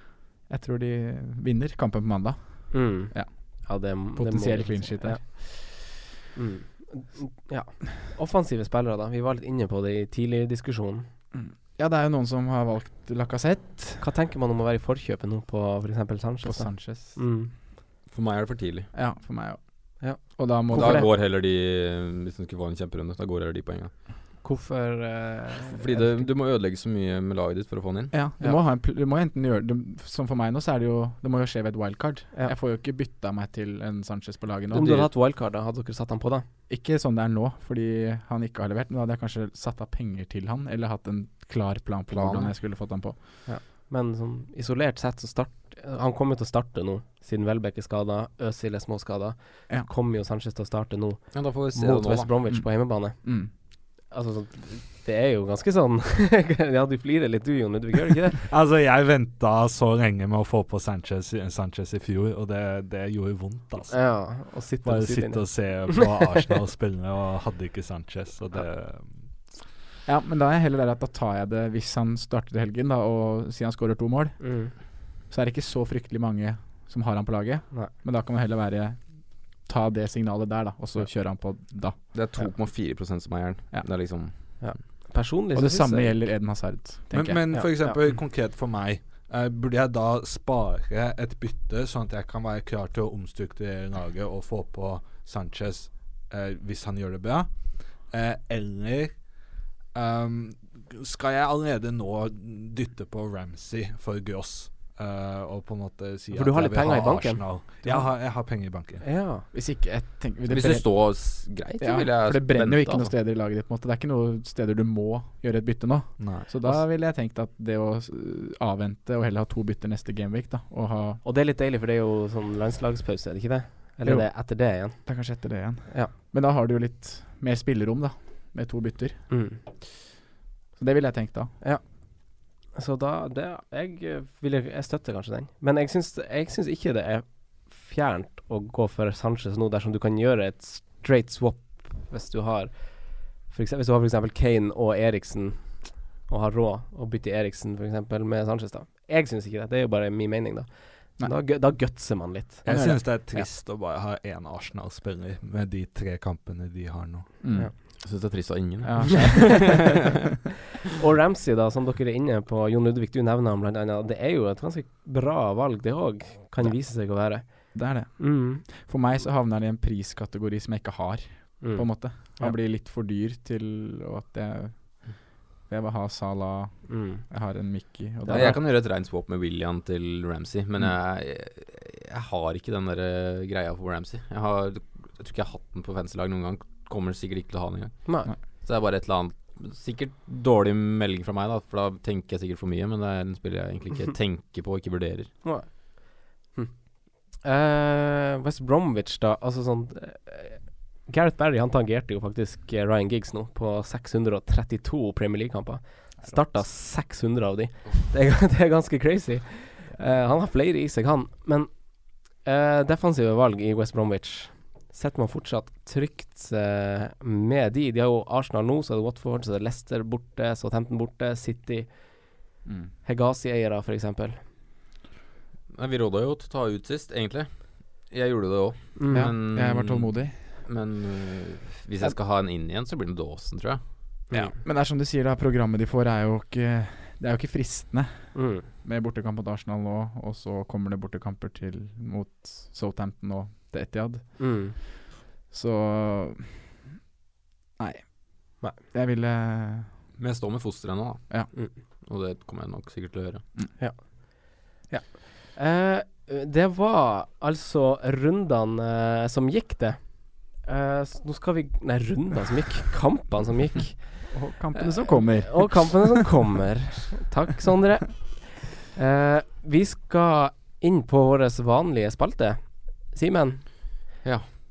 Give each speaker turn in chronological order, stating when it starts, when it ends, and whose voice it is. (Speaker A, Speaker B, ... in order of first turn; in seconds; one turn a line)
Speaker A: 0.5-5.4
Speaker B: 2.7-11.1
Speaker A: 11.3-14.1
Speaker B: 14.0-17.5
Speaker A: 16.4-17.2
Speaker C: 18.1-18.9
Speaker A: 18.9-21.1
Speaker B: 20.0-21.1
Speaker C: 20.7-23.9
Speaker B: 24.4-26.2
Speaker C: 25.7-28.2
Speaker A: 28.1-35.1
Speaker B: 34.7-36.5
Speaker A: 36.7-43.2
Speaker C: 42.1-42.5
Speaker B: 43.5-58.4
Speaker C: 51.3-52.3
Speaker A: 52.5-53.5
Speaker D: 58.5-69.3
Speaker B: 63.9-66.0
Speaker A: 70.1-82.0
Speaker B: 74.4-74.7
Speaker C: 82.1-84.6
Speaker B: 84.6-86.2
Speaker A: 85.5-87.5
Speaker D: 87.1-109.0
Speaker B: 87.5-88.0
Speaker B: 106.3-107.5
Speaker A: 107.8-108.1
Speaker B: 109.0-109.5
Speaker A: 109.5-111.2
Speaker C: 110.5-113.1
Speaker A: 111.8-121.2
Speaker D: 116.2-116.5
Speaker B: 121.2-126.1
Speaker A: 124.0-129.7
Speaker B: 129.3-129.6
Speaker A: 130.8-131.5
Speaker B: 131.6-152.6
Speaker D: 152.6-157.4
Speaker A: 152.7-153.5
Speaker A: 157.4-158.0
Speaker C: 158.0-159.7
Speaker A: 158.8-160.1
Speaker B: 159.3-159.9
Speaker B: 161.0-168.6
Speaker A: 166.6-178.7
Speaker B: 171.6-172.6
Speaker B: 176.9-177.3
Speaker B: 178.2-178.5
Speaker C: 178.3-195.3
Speaker B: 188.1-188.3
Speaker B: 195.4-222.4
Speaker A: 222.7-222.9
Speaker B: 223.0-224.4
Speaker C: 225.7-233.8
Speaker B: 229.0-229.3
Speaker A: 229.1-230.5
Speaker A: 234.6-244.9
Speaker B: 238.3-238.7
Speaker B: 244.4-244.8
Speaker A: 245.5-246.8
Speaker A: 247.8-250.0
Speaker C: 250.2-253.4
Speaker B: 253.8-274.1
Speaker A: 264.3-266.2
Speaker C: 274.2-274.5